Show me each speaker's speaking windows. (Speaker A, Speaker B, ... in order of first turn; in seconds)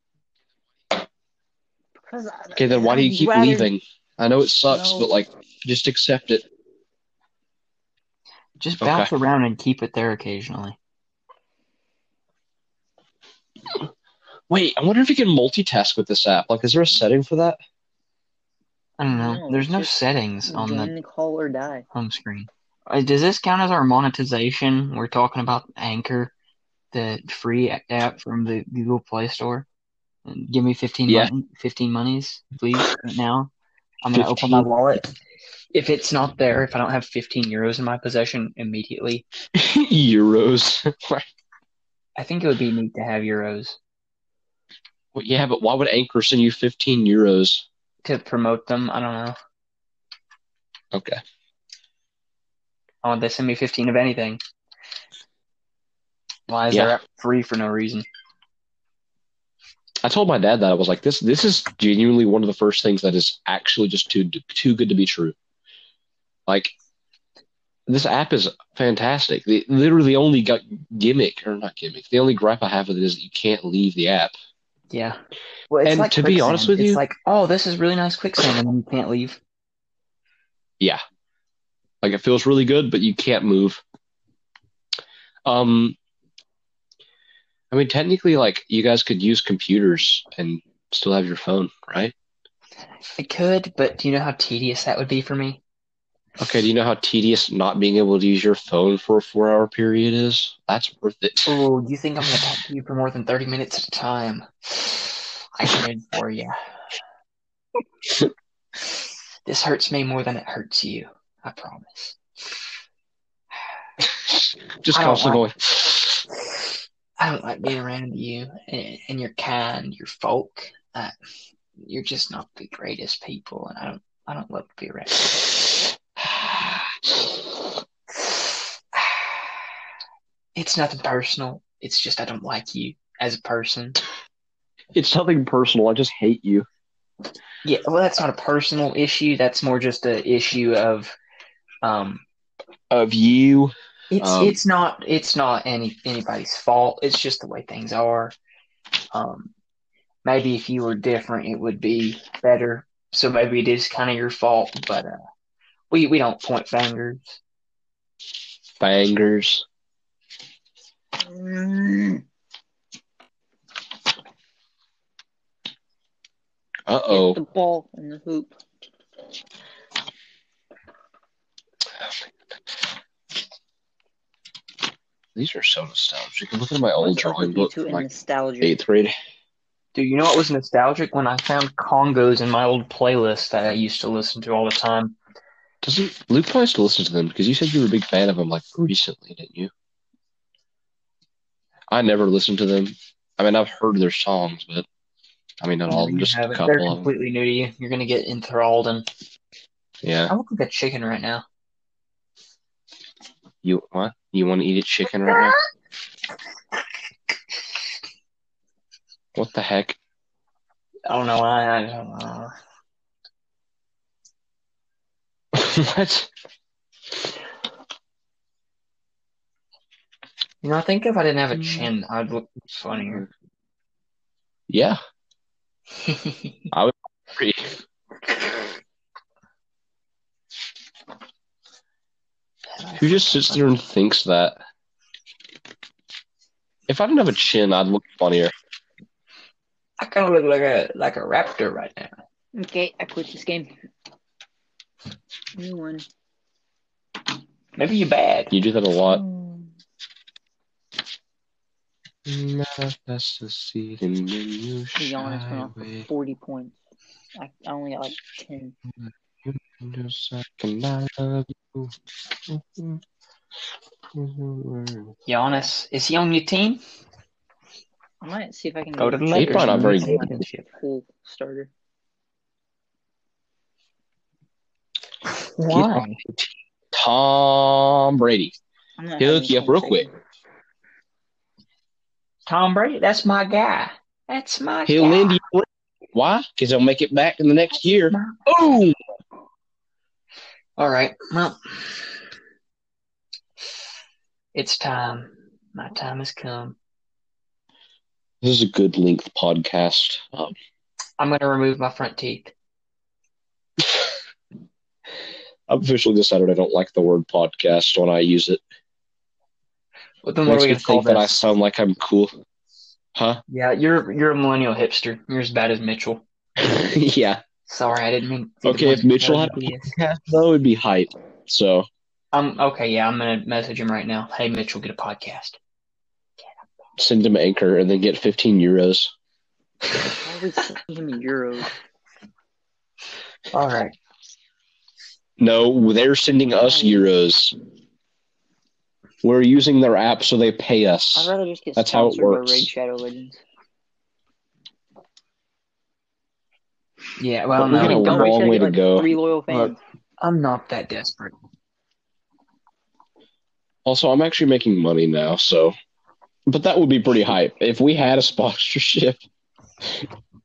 Speaker A: 2.0-3.7, 4.7-5.1, 19.1-19.9, 20.5-21.9, 161.2-162.2, 167.1-168.5, 177.0-178.8, 242.5-243.7, 245.6-246.1, 249.1-249.7, 255.0-256.8, 257.4-258.8, 268.2-271.7, 279.0-280.1, 330.1-331.7, 336.6-337.1, 341.2-343.4, 347.7-349.8
Speaker B: 2.6-6.4, 8.8-9.1, 14.5-17.6, 34.1-34.7, 39.5-41.3, 45.1-47.7, 50.9-51.2, 56.7-57.0, 60.0-65.4, 66.5-66.7, 67.9-74.3, 75.9-77.0, 82.0-83.8, 85.5-86.0, 87.7-92.1, 96.4-101.6, 114.0-116.2, 126.2-127.1, 134.9-136.7, 142.9-144.6, 158.8-159.7, 166.9-167.4, 172.0-172.3, 175.4-178.1, 178.6-179.1, 185.8-189.7, 191.9-194.9, 195.6-197.1, 200.0-200.3, 203.6-205.6, 209.3-210.0, 215.5-216.3, 224.7-225.0, 226.7-227.8, 233.0-234.6, 236.9-238.5, 248.5-249.2, 252.3-256.1, 258.9-262.0, 262.5-263.0, 264.1-265.2, 269.3-270.3, 275.7-278.6, 279.2-280.1, 284.9-289.0, 298.4-300.6, 303.8-304.1, 305.7-308.6, 310.5-312.3, 313.1-313.4, 316.6-317.4, 318.6-321.9, 327.0-329.1, 335.4-337.5, 339.2-342.7, 347.6-349.1, 353.9-355.8, 356.5-359.2
Speaker C: 8.6-10.8, 19.0-20.9, 21.9-26.3, 26.9-29.7, 30.3-33.5, 34.0-35.1, 35.7-39.2, 42.2-43.8, 48.0-49.4, 53.0-54.4, 56.5-58.1, 74.9-75.2, 75.7-79.4, 93.2-95.6, 101.5-106.6, 109.5-112.2, 114.9-115.4, 117.2-121.1, 121.8-125.4, 130.6-134.0, 137.6-141.2, 141.8-142.2, 144.1-148.3, 149.1-149.5, 150.2-155.2, 155.9-157.4, 179.9-185.2, 195.9-199.1, 200.3-201.4, 205.3-205.6, 211.1-212.5, 220.6-223.3, 226.1-226.5, 232.8-233.6, 240.0-242.1, 247.8-248.5, 265.3-266.8, 269.0-270.7, 275.6-276.2, 282.5-285.4, 288.1-288.4, 290.8-292.1, 294.5-296.8, 301.2-302.5, 310.2-311.4, 313.5-316.2, 317.7-319.9, 322.3-325.6, 333.5-334.0, 347.2-348.4, 349.5-351.3